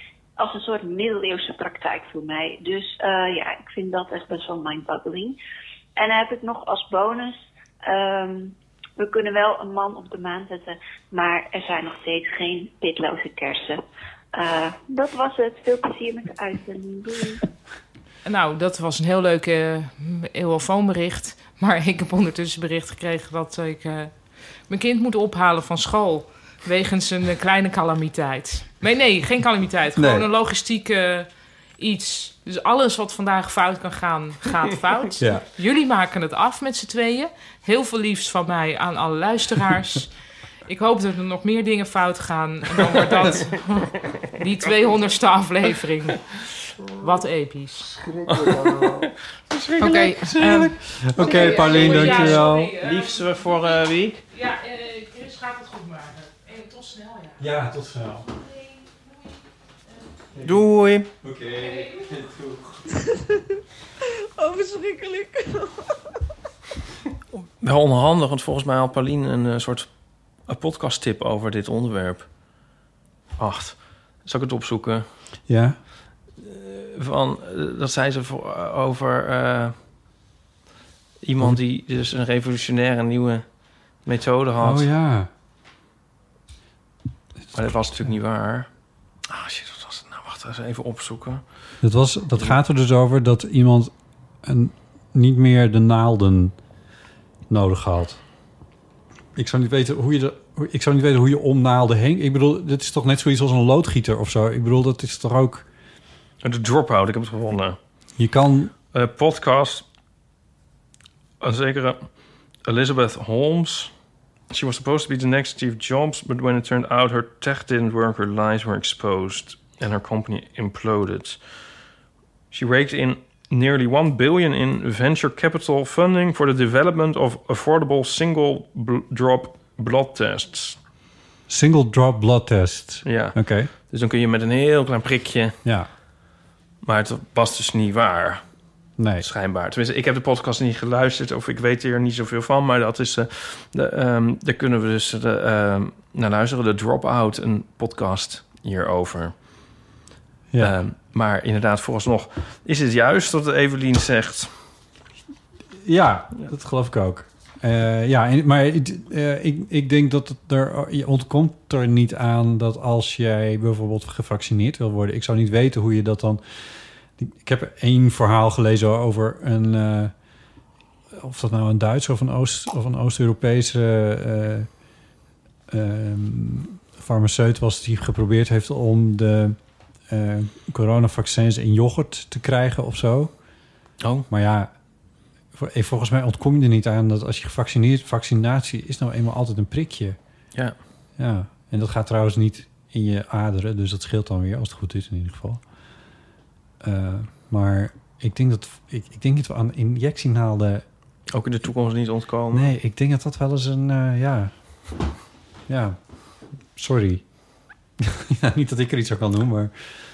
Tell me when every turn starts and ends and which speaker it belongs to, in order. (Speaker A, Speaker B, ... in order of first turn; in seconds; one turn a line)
Speaker A: 0.4-5.4
Speaker A: 6.0-13.8
Speaker A: 14.3-17.4
Speaker B: 18.2-24.1
Speaker B: 24.7-40.1
Speaker C: 29.9-30.3
Speaker C: 35.2-35.4
Speaker B: 40.7-46.2
Speaker B: 47.0-48.0
Speaker D: 48.3-54.2
Speaker C: 48.3-48.9
Speaker B: 49.8-53.3
Speaker C: 51.0-52.7
Speaker B: 54.3-57.4
Speaker C: 57.4-58.3
Speaker B: 58.3-59.3
Speaker C: 60.3-60.6
Speaker D: 60.4-61.1
Speaker C: 61.2-63.2
Speaker C: 64.4-65.5
Speaker D: 67.6-69.9
Speaker D: 70.5-72.3
Speaker D: 73.4-75.0
Speaker C: 75.5-75.8
Speaker D: 76.4-79.7
Speaker D: 81.2-83.5
Speaker D: 84.0-84.9
Speaker C: 84.6-85.3
Speaker C: 87.5-88.1
Speaker D: 87.5-88.7
Speaker D: 89.3-91.4
Speaker C: 91.8-93.9
Speaker C: 94.4-96.5
Speaker C: 97.5-98.2
Speaker C: 99.3-105.7
Speaker D: 106.4-107.8
Speaker C: 108.2-108.7
Speaker D: 108.9-109.8
Speaker D: 111.4-112.0
Speaker D: 112.6-113.9
Speaker D: 114.5-121.4
Speaker D: 122.5-130.8
Speaker C: 131.5-133.7
Speaker D: 133.0-135.6
Speaker C: 135.6-135.9
Speaker D: 136.8-138.4
Speaker C: 139.0-139.2
Speaker D: 139.2-149.3
Speaker D: 150.6-154.5
Speaker C: 155.8-166.4
Speaker C: 167.2-170.1
Speaker C: 171.1-174.7
Speaker C: 175.7-179.6
Speaker C: 180.1-183.3
Speaker D: 184.0-184.3
Speaker C: 184.3-184.7
Speaker C: 185.5-190.2
Speaker C: 191.2-195.6
Speaker C: 196.8-200.8
Speaker D: 201.3-202.7
Speaker C: 202.5-204.5
Speaker C: 205.7-206.0
Speaker C: 206.8-207.2
Speaker C: 208.0-209.7